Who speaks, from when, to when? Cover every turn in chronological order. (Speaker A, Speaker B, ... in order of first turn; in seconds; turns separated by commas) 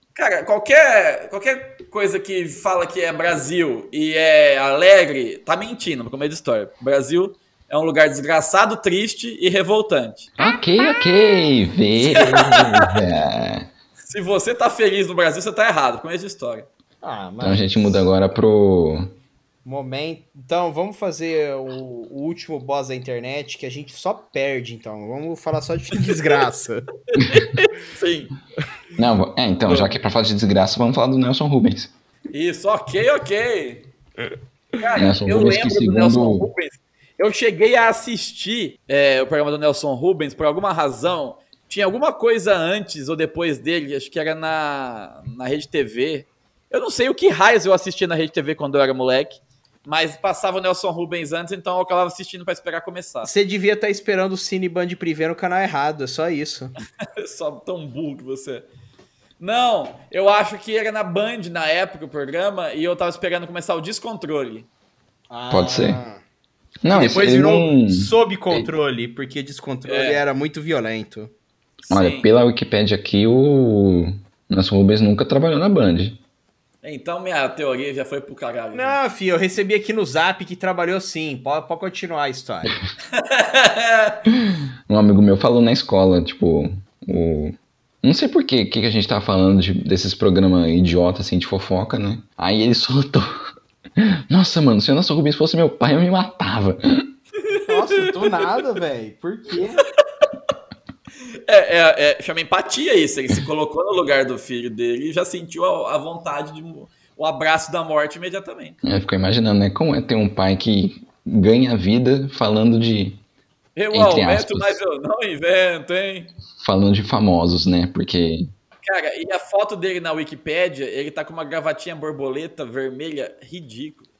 Speaker A: 0.1-10.3, Speaker B: 10.4-13.7, Speaker A: 12.0-12.9, Speaker A: 14.0-16.7, Speaker C: 17.0-18.1, Speaker B: 17.4-19.1, Speaker C: 19.6-26.9, Speaker A: 27.2-28.3, Speaker B: 29.0-31.9, Speaker A: 29.7-29.9, Speaker A: 32.3-33.9, Speaker A: 34.8-53.3, Speaker B: 34.9-36.5, Speaker C: 53.2-56.7, Speaker A: 57.0-58.6, Speaker A: 59.4-64.7, Speaker C: 65.3-66.2, Speaker B: 65.5-66.0, Speaker B: 66.8-68.7, Speaker C: 66.9-71.3, Speaker A: 69.8-70.2, Speaker A: 71.8-72.3, Speaker B: 71.9-76.2, Speaker A: 76.8-79.0, Speaker C: 78.7-82.8, Speaker A: 83.1-84.2, Speaker B: 84.5-93.4, Speaker B: 94.0-97.1, Speaker A: 97.5-98.3, Speaker C: 97.6-99.8, Speaker A: 101.5-108.8, Speaker B: 108.8-113.2, Speaker A: 113.8-116.3, Speaker B: 113.9-114.8, Speaker B: 116.6-118.5, Speaker A: 118.8-124.1